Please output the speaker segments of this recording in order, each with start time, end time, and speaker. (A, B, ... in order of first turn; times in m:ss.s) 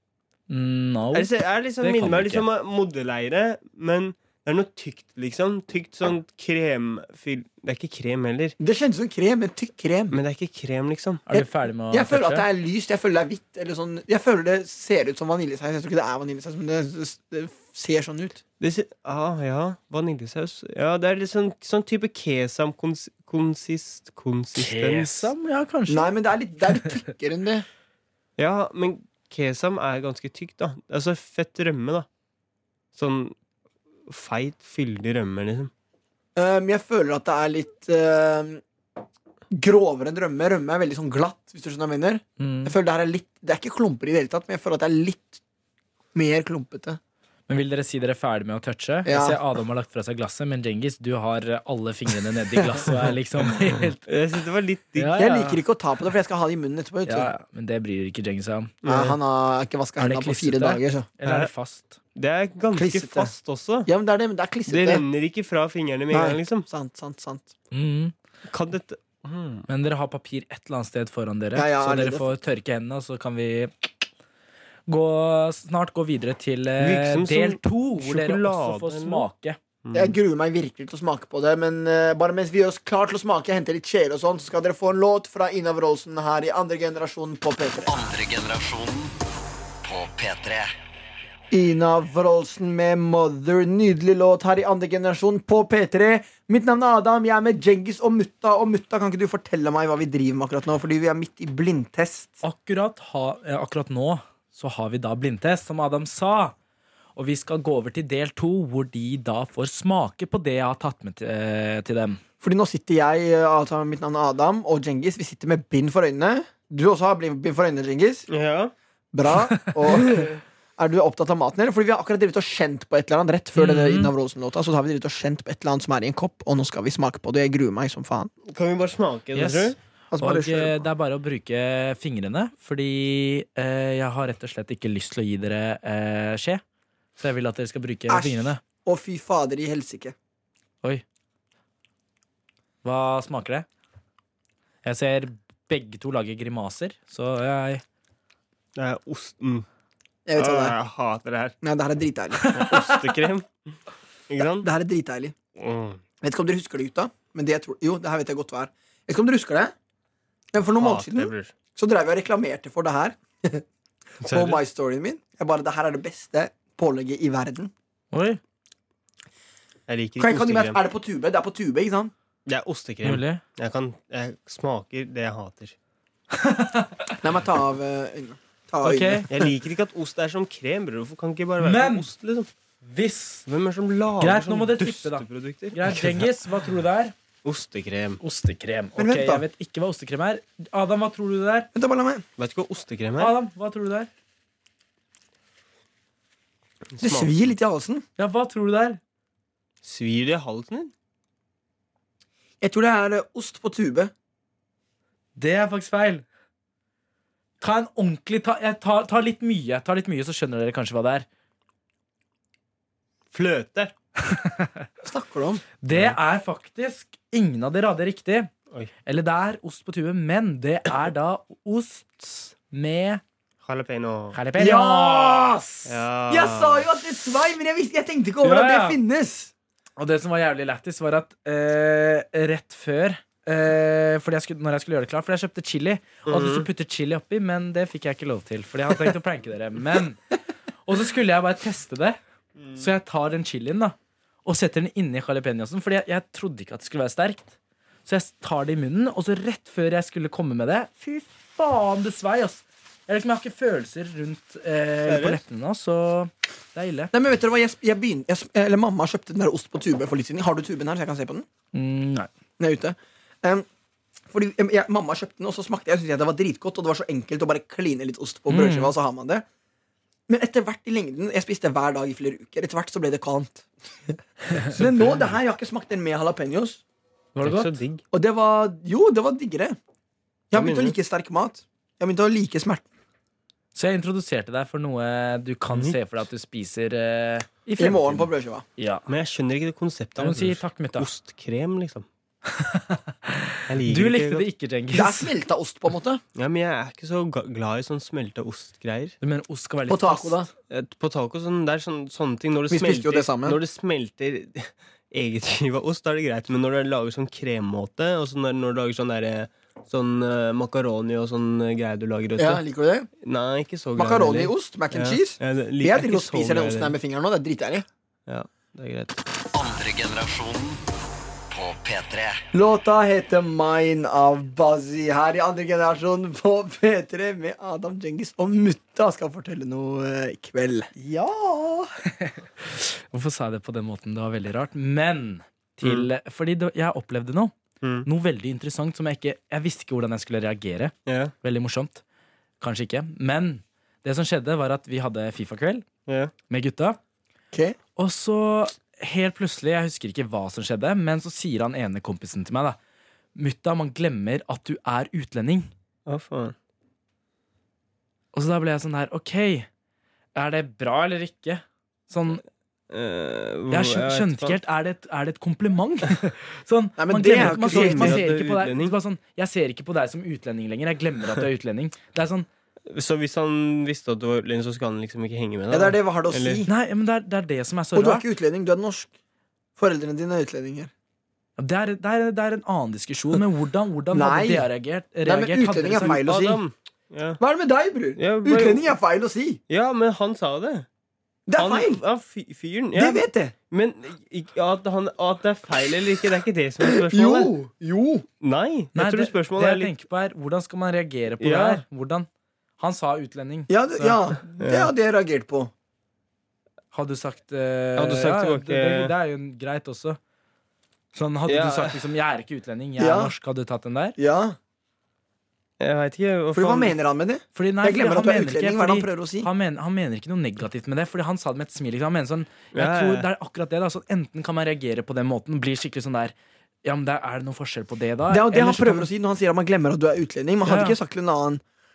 0:00.5-0:02.4 A
0:01.1-0:08.6 B
0:08.6-0:10.2 C
0:10.1-0:11.2 B
0:11.3-0:12.4 A
0:11.3-0:18.4 C
0:18.6-0:25.3 B
0:24.5-0:26.1 A
0:25.9-0:27.6 C
0:28.4-0:32.1 B
0:32.9-0:33.3 B
0:34.1-0:35.7 B
0:36.4-0:38.6 C
0:39.5-0:45.4 C
0:42.4-0:42.8 A
0:46.1-0:47.0 C
0:47.5-0:54.1 A
0:49.0-0:49.4 C
0:54.0-0:55.2 B
0:55.0-0:55.6 A
0:55.1-0:57.3 C
0:57.0-0:58.7 A
0:58.8-0:59.2 B
0:58.8-1:01.1 C
1:00.0-1:02.0 A
1:01.2-1:01.5 B
1:02.1-1:03.9 B
1:02.7-1:03.3 C
1:03.8-1:05.0 C
1:04.7-1:06.6 B
1:06.1-1:07.5 C
1:07.7-1:08.1 A
1:08.5-1:09.7 B
1:09.7-1:14.0 A
1:11.5-1:12.2 C
1:14.9-1:19.6 A
1:16.8-1:19.2 B
1:19.8-1:20.1 B
1:19.9-1:27.9 C
1:27.9-1:29.2 D
1:29.8-1:30.7 D
1:31.5-1:42.4 C
1:42.4-1:46.5 A
1:47.2-1:52.2 A
1:52.4-1:58.3 C
1:58.3-1:58.7 B
1:59.1-2:08.3 C
2:00.0-2:00.3 B
2:03.6-2:04.1 A
2:08.5-2:09.8 B
2:09.3-2:16.6 A
2:10.1-2:10.7 C
2:17.2-2:18.6 A
2:18.1-2:20.1 C
2:22.8-2:23.7 A
2:24.8-2:27.8 A
2:28.8-2:29.6 B
2:30.2-2:30.8 C
2:30.4-2:31.5 B
2:31.6-2:32.8 C
2:32.4-2:33.0 A
2:32.5-2:33.7 B
2:34.3-2:34.7 B
2:34.6-2:35.3 C
2:35.6-2:36.0 B
2:36.2-2:39.7 C
2:40.5-2:43.6 C
2:40.8-2:41.5 B
2:44.2-2:44.6 B
2:44.2-2:47.7 C
2:48.1-2:48.4 A
2:49.9-2:50.8 B
2:50.2-2:52.1 C
2:52.5-2:55.7 B
2:53.0-2:53.4 A
2:56.3-2:57.2 A
2:57.2-2:59.3 C
2:58.8-2:59.3 A
2:59.3-3:02.5 B
3:01.6-3:02.1 A
3:02.8-3:03.4 A
3:03.5-3:06.3 B
3:04.2-3:07.1 A
3:07.4-3:08.2 B
3:08.2-3:11.7 A
3:09.0-3:09.4 C
3:11.7-3:12.2 C
3:12.4-3:13.3 B
3:13.2-3:14.1 A
3:16.9-3:17.5 B
3:17.0-3:18.0 C
3:18.2-3:19.0 A
3:19.8-3:20.9 B
3:22.6-3:24.1 C
3:25.4-3:26.2 A
3:27.6-3:31.2 A
3:33.3-3:33.9 B
3:34.2-3:34.8 A
3:35.0-3:35.6 C
3:35.8-3:38.5 A
3:35.9-3:36.2 B
3:39.0-3:43.2 A
3:43.6-3:44.4 B
3:44.3-3:45.7 A
3:44.5-3:45.6 C
3:45.8-3:46.8 B
3:46.3-3:49.5 C
3:48.4-3:49.0 A
3:50.0-4:00.2 A
3:56.3-3:56.7 B
4:00.8-4:02.2 A
4:02.6-4:02.8 B
4:02.8-4:07.5 A
4:08.0-4:17.1 A
4:15.1-4:15.4 B
4:17.1-4:21.4 C
4:21.7-4:22.3 A
4:22.6-4:23.6 C
4:24.3-4:29.4 C
4:28.5-4:28.9 A
4:30.3-4:36.8 C
4:37.3-4:37.8 A
4:37.4-4:38.0 B
4:38.1-4:39.8 C
4:40.5-4:42.8 C
4:40.5-4:40.9 B
4:43.7-4:49.0 A
4:47.8-4:48.6 C
4:49.1-4:52.0 B
4:50.2-4:51.1 A
4:52.5-4:55.3 A
4:53.7-4:54.5 B
4:54.9-4:56.2 C
4:56.4-4:59.2 B
4:59.2-5:00.4 A
4:59.9-5:00.5 C
5:00.7-5:12.6 B
5:02.7-5:03.6 C
5:12.4-5:13.1 C
5:13.2-5:17.0 B
5:14.0-5:17.8 C
5:18.3-5:19.2 B
5:19.5-5:20.8 D
5:21.5-5:22.4 D
5:22.5-5:31.8 C
5:32.2-5:37.5 A
5:35.8-5:36.1 B
5:37.8-5:38.1 B
5:38.0-5:42.0 A
5:41.0-5:41.3 B
5:42.6-5:45.8 A
5:46.1-5:46.3 B
5:46.5-5:47.0 A
5:47.5-5:47.8 C
5:48.0-5:52.8 A
5:53.3-5:55.7 A
5:56.1-5:56.5 B
5:58.3-5:59.7 A
6:00.3-6:02.4 A
6:02.9-6:04.6 B
6:03.7-6:12.5 A
6:07.0-6:08.2 C
6:07.4-6:08.9 B
6:12.9-6:16.6 B
6:15.7-6:16.7 C
6:16.7-6:18.2 A
6:18.0-6:19.1 C
6:19.8-6:20.9 C
6:21.6-6:26.2 A
6:24.1-6:24.7 C
6:25.2-6:26.6 C
6:26.2-6:27.4 B
6:27.4-6:29.6 C
6:28.2-6:28.9 B
6:29.7-6:30.9 B
6:31.5-6:32.0 C
6:31.6-6:37.5 B
6:32.9-6:33.5 C
6:36.8-6:38.2 C
6:38.4-6:39.9 B
6:38.9-6:44.2 A
6:41.4-6:41.8 B
6:43.7-6:45.7 C
6:44.6-6:44.9 B
6:46.9-6:50.2 A
6:48.0-6:49.1 B
6:51.1-6:54.2 A
6:51.5-6:52.0 B
6:53.0-6:53.3 C
6:54.2-6:54.6 C
6:55.8-6:56.9 B
6:56.5-6:59.5 C
6:57.5-7:09.1 A
7:02.7-7:03.3 B
7:08.3-7:11.6 C
7:10.6-7:11.0 A